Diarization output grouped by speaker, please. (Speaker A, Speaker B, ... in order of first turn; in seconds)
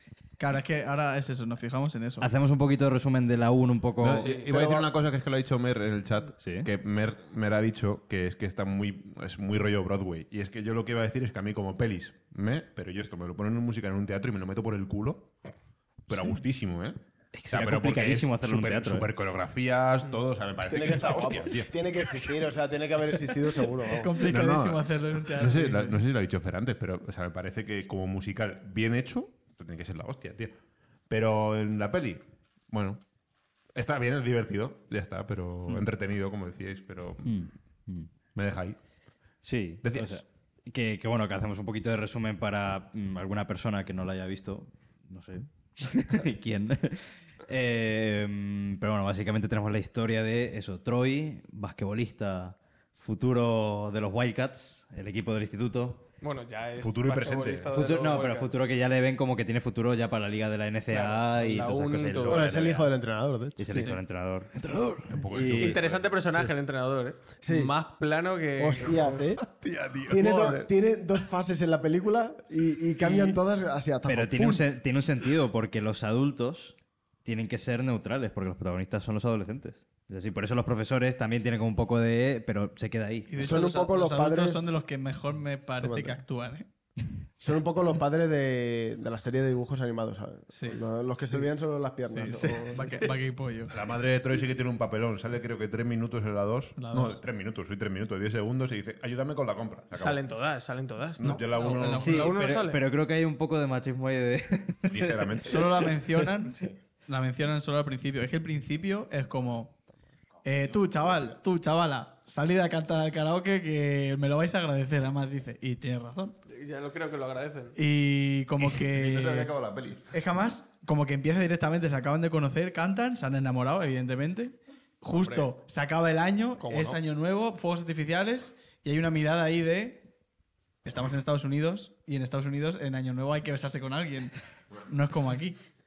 Speaker A: 0.4-2.3, 23.9-26.0, 83.3-86.7, 90.5-90.8, 92.1-93.8, 96.8-97.2, 101.2-102.3, 105.4-109.8, 110.4-116.3, 117.7-119.5, 120.1-130.1, 130.8-134.3, 134.8-135.6
Speaker B: 2.2-4.3, 6.4-6.7, 17.3-19.1, 37.2-38.1, 39.4-56.0, 57.7-62.9, 63.6-65.8, 74.0-83.6, 102.0-105.6
Speaker C: 4.0-15.3, 16.1-17.0, 17.5-21.7, 24.2-30.6, 31.1-33.0, 33.7-37.5, 38.3-38.8, 39.8-40.2, 56.8-57.7, 65.1-66.5, 69.2-70.6, 93.7-100.3, 101.2-102.3, 104.9-106.0, 118.6-120.0
Speaker D: 4.2-4.5, 56.2-58.5, 60.9-62.7, 65.4-69.2, 70.1-70.7, 99.9-102.8, 116.5-117.8, 125.1-125.5, 126.6-127.0
Speaker E: 4.3-4.9, 20.6-24.2, 62.3-63.9, 67.4-67.7, 68.6-69.4, 70.1-74.7, 83.4-84.7, 85.8-86.2, 87.4-93.1